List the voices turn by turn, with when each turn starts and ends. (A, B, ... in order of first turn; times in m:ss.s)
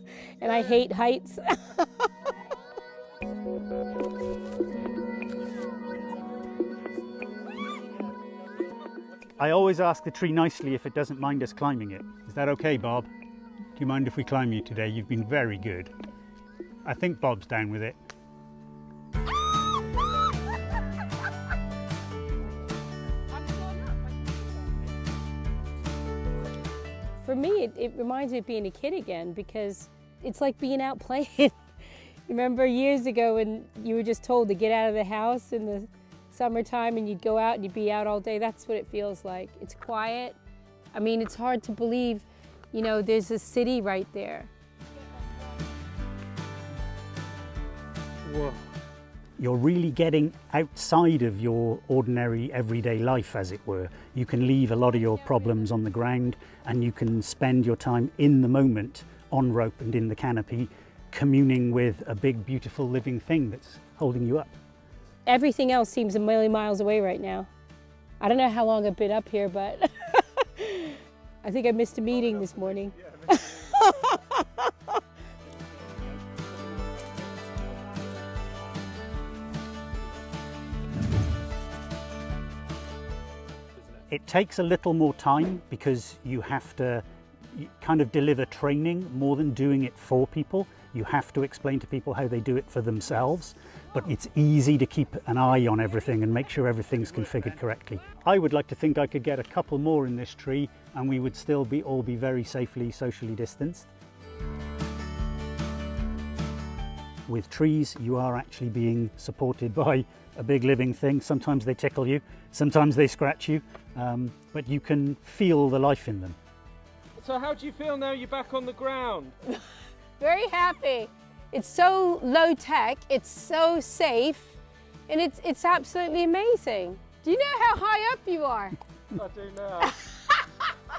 0:00.4-0:01.9 A
0:09.4-0:13.1 B
0:13.8-0:15.9 B
0:16.8-0:18.0 B
0:23.6-0:23.9 A
0:27.2-0:31.6 A
0:32.3-0:40.4 A
0:40.9-0:44.5 A
0:48.3-0:48.6 C
0:49.4-1:04.5 B
1:05.2-1:07.5 A
1:08.2-1:14.7 A
1:24.1-1:43.9 B
1:47.3-1:56.4 B
1:57.2-1:59.3 C
2:00.2-2:04.6 A
2:05.1-2:08.8 A
2:09.1-2:09.9 C
2:09.8-2:10.8 A